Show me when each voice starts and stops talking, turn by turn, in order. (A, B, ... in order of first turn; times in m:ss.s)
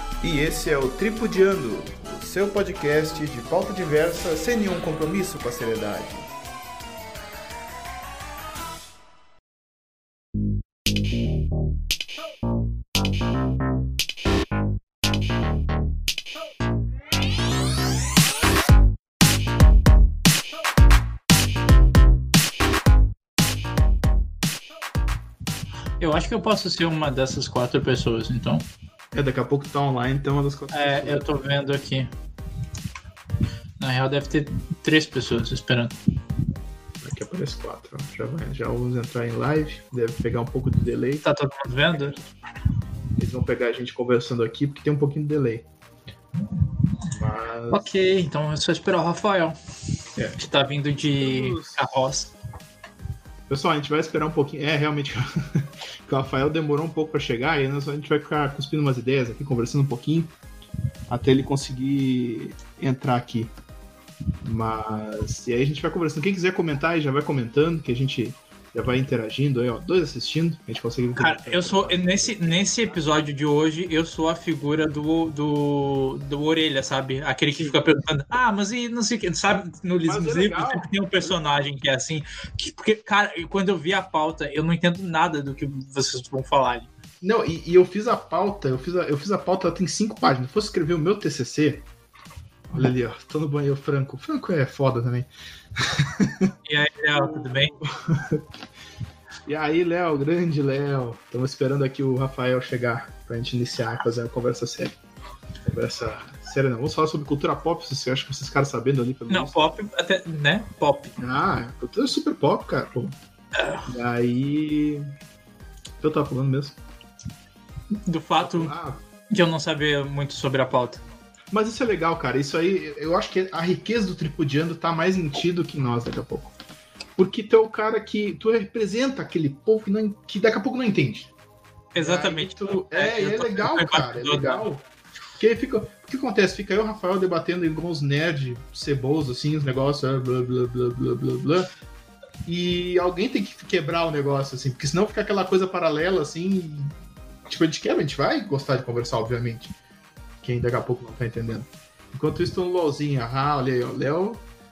0:00.2-0:06.3 A
0:26.0-0:28.7 B
0:29.1-0:31.3 A
0:30.7-0:32.1 B
0:33.8-0:36.0 B
0:37.0-0:41.2 A
0:41.2-0:42.2 B
0:43.2-0:45.7 A
0:47.1-0:47.9 A
0:47.7-0:49.6 B
0:50.4-0:52.3 B
0:51.2-0:51.8 A
0:53.5-1:00.3 A
1:01.1-1:03.5 A
1:04.4-1:13.0 A
1:11.2-1:26.9 B
1:20.0-1:21.6 A
1:27.2-1:31.8 A
1:32.7-1:36.6 A
1:36.7-1:37.7 B
1:37.1-1:38.4 A
1:39.4-1:45.0 A
1:45.6-1:49.6 A
1:49.3-1:51.1 B
1:51.2-1:53.1 A
1:53.6-1:53.9 B
1:53.9-1:55.1 A
1:56.0-1:56.8 A
1:58.0-1:58.7 B
1:58.4-1:59.0 A
1:59.3-2:01.0 B
2:01.5-2:06.5 A
2:07.2-2:11.3 A
2:11.9-2:14.6 B
2:12.0-2:14.8 A
2:15.4-2:21.7 A
2:22.4-2:29.8 A
2:30.4-2:34.5 A